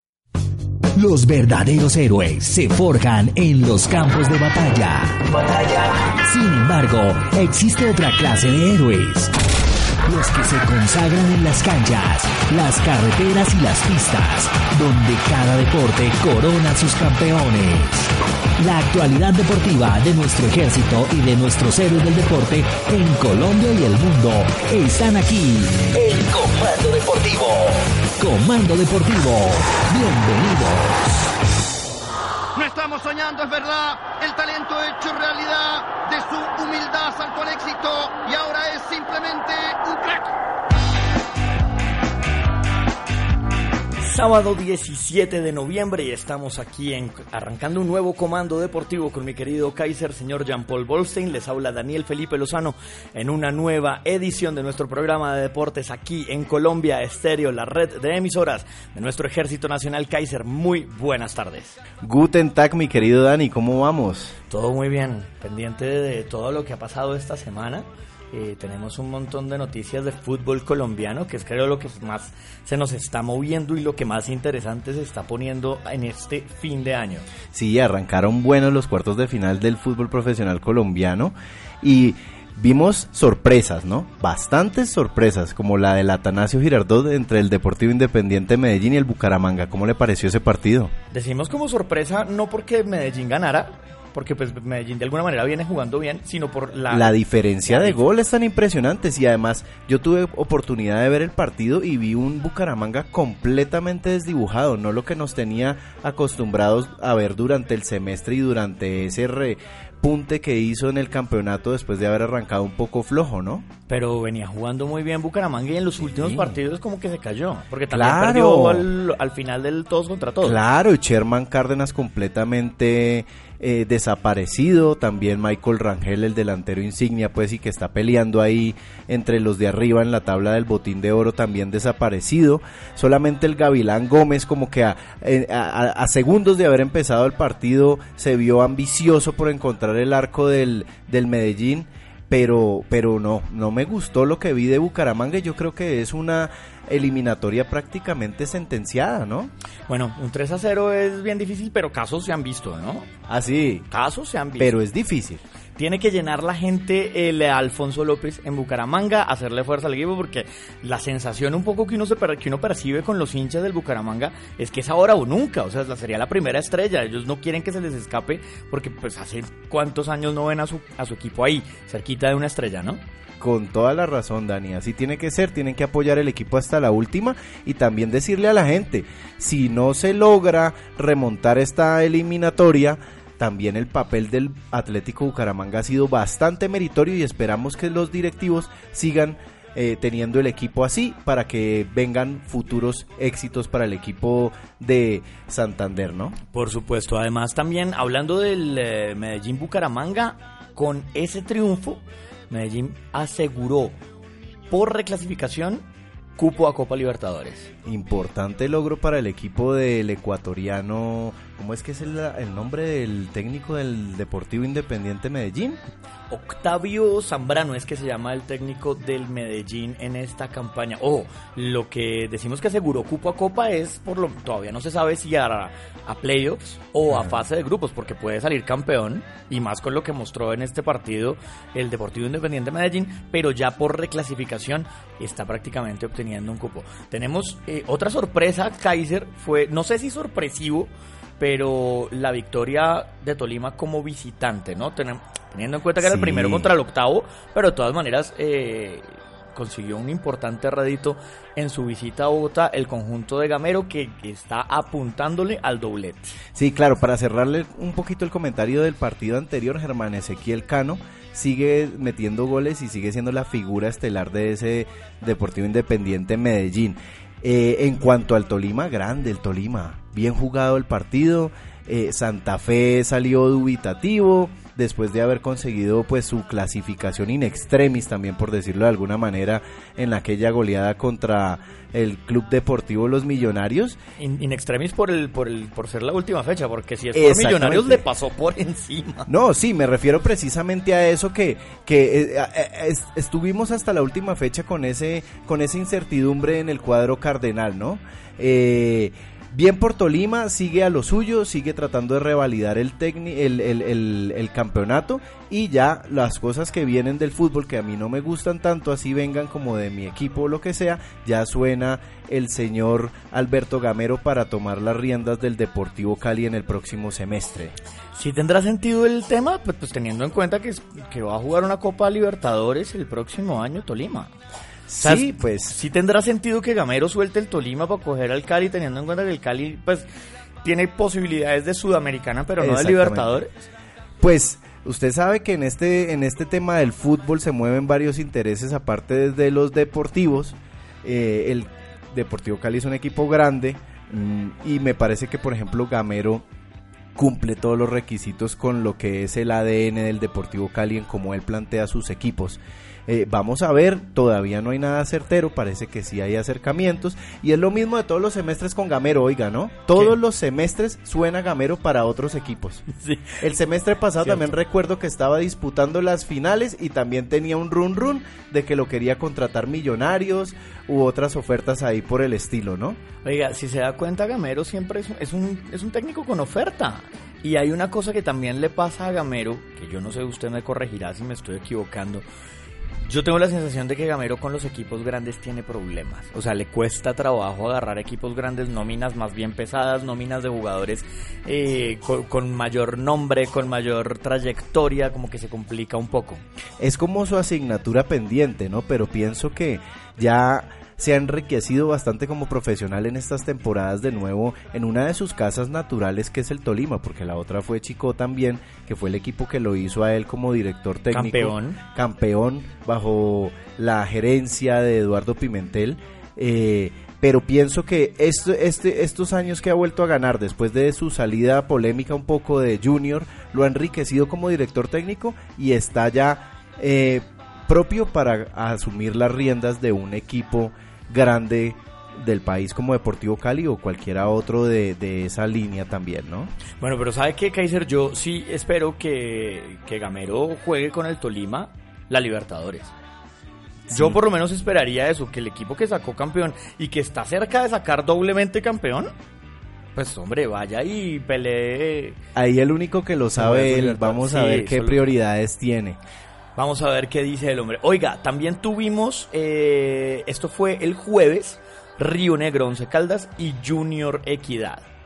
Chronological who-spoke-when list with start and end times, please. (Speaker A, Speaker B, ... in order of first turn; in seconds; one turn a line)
Speaker A: 0.9-9.3
Speaker A: 10.1-31.0
Speaker B: 32.5-40.3
Speaker C: 44.0-61.8
Speaker D: 62.0-64.4
Speaker C: 64.5-77.3
Speaker D: 77.5-90.9
Speaker C: 91.1-98.0
Speaker D: 96.9-113.7
Speaker C: 113.9-120.6
Speaker D: 116.0-116.6
Speaker D: 117.9-118.9
Speaker D: 120.4-149.5
Speaker C: 149.9-153.1
Speaker D: 153.3-153.9
Speaker C: 153.9-154.7
Speaker D: 154.6-155.4
Speaker C: 155.8-173.0
Speaker D: 173.4-196.4
Speaker C: 196.5-203.9
Speaker C: 204.7-205.8
Speaker C: 206.4-207.7
Speaker D: 207.8-215.8
Speaker C: 216.3-256.4
Speaker D: 227.1-227.4
Speaker D: 246.0-246.7
Speaker D: 256.6-284.0
Speaker C: 284.2-289.3
Speaker D: 287.1-288.0
Speaker D: 289.3-317.8
Speaker C: 318.1-324.3
Speaker D: 324.9-325.8
Speaker C: 325.0-330.1
Speaker C: 330.6-333.6
Speaker D: 332.6-333.4
Speaker D: 334.2-346.4
Speaker D: 347.1-362.8
Speaker C: 362.9-363.4
Speaker D: 363.4-373.0
Speaker C: 364.2-364.5
Speaker C: 373.2-382.2
Speaker C: 383.0-396.4
Speaker D: 396.8-436.5
Speaker C: 411.1-411.8
Speaker C: 436.8-442.9
Speaker D: 443.9-444.2
Speaker C: 443.9-449.1
Speaker C: 450.0-452.2
Speaker D: 452.4-456.0
Speaker C: 453.4-455.0
Speaker C: 456.6-464.9